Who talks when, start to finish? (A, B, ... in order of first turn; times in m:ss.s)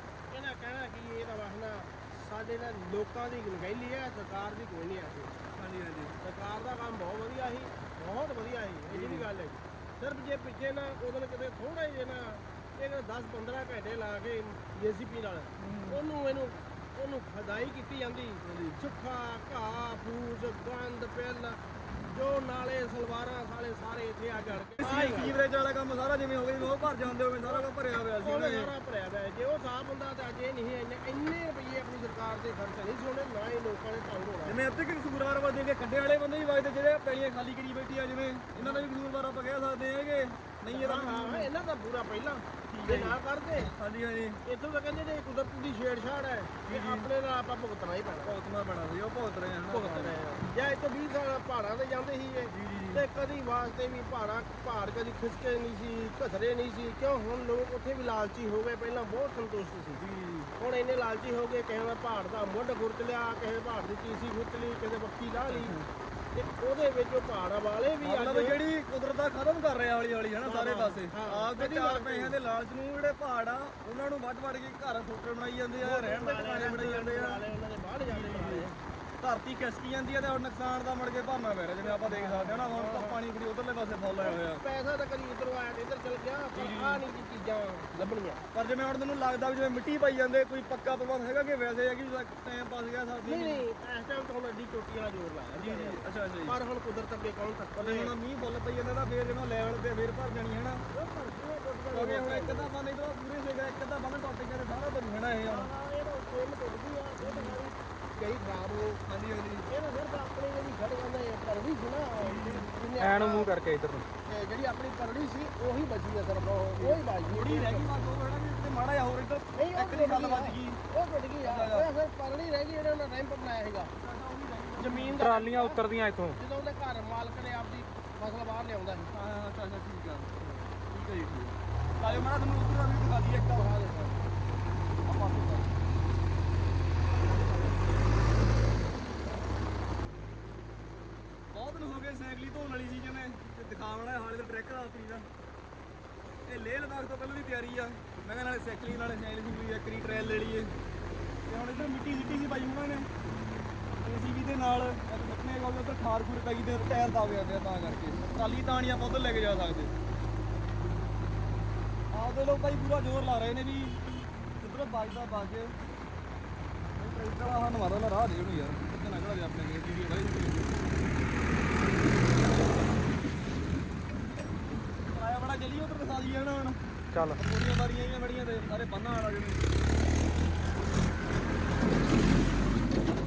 0:00.3-0:05.4 A
0:05.5-0:06.2 B
0:06.2-0:25.4 A
0:08.9-0:09.3 B
0:15.6-0:16.0 B
0:18.4-0:18.8 B
0:24.7-0:28.7 B
0:28.2-0:34.6 A
0:34.4-0:41.5 B
0:38.6-0:38.8 A
0:40.6-0:43.7 A
0:42.7-0:44.4 B
0:44.4-0:48.4 A
0:46.6-0:47.1 B
0:48.2-0:50.3 B
0:49.9-1:00.0 A
0:52.5-0:53.0 B
1:00.0-1:00.5 B
1:00.6-1:05.8 A
1:05.5-1:05.8 B
1:06.3-1:08.6 A
1:08.0-1:17.4 B
1:10.4-1:12.4 A
1:15.8-1:18.7 A
1:18.0-1:24.6 B
1:21.8-1:23.2 A
1:24.2-1:28.4 A
1:26.5-1:27.0 B
1:28.5-1:33.6 B
1:33.2-1:38.1 A
1:35.5-1:36.6 B
1:37.8-1:40.8 B
1:40.9-1:42.7 A
1:41.9-1:45.7 B
1:45.4-1:49.0 A
1:49.0-1:49.7 B
1:49.7-1:53.5 A
1:52.2-1:52.7 B
1:53.0-1:54.1 C
1:54.2-1:57.9 A
1:56.8-2:00.8 B
1:59.5-2:03.9 A
2:01.4-2:01.9 B
2:03.9-2:05.2 B
2:04.8-2:05.8 A
2:04.8-2:06.4 C
2:06.4-2:09.1 A
2:09.0-2:13.8 B
2:12.0-2:12.3 A
2:13.5-2:14.2 A
2:15.0-2:15.7 B
2:21.5-2:25.3 B
2:26.4-2:30.7 B
2:31.5-2:33.1 B
2:34.0-2:39.9 B
2:42.1-2:44.0 B
2:44.6-2:45.7 B
2:47.0-2:50.8 B
2:55.1-2:56.8 B
2:57.1-2:57.4 C
2:57.3-2:59.6 B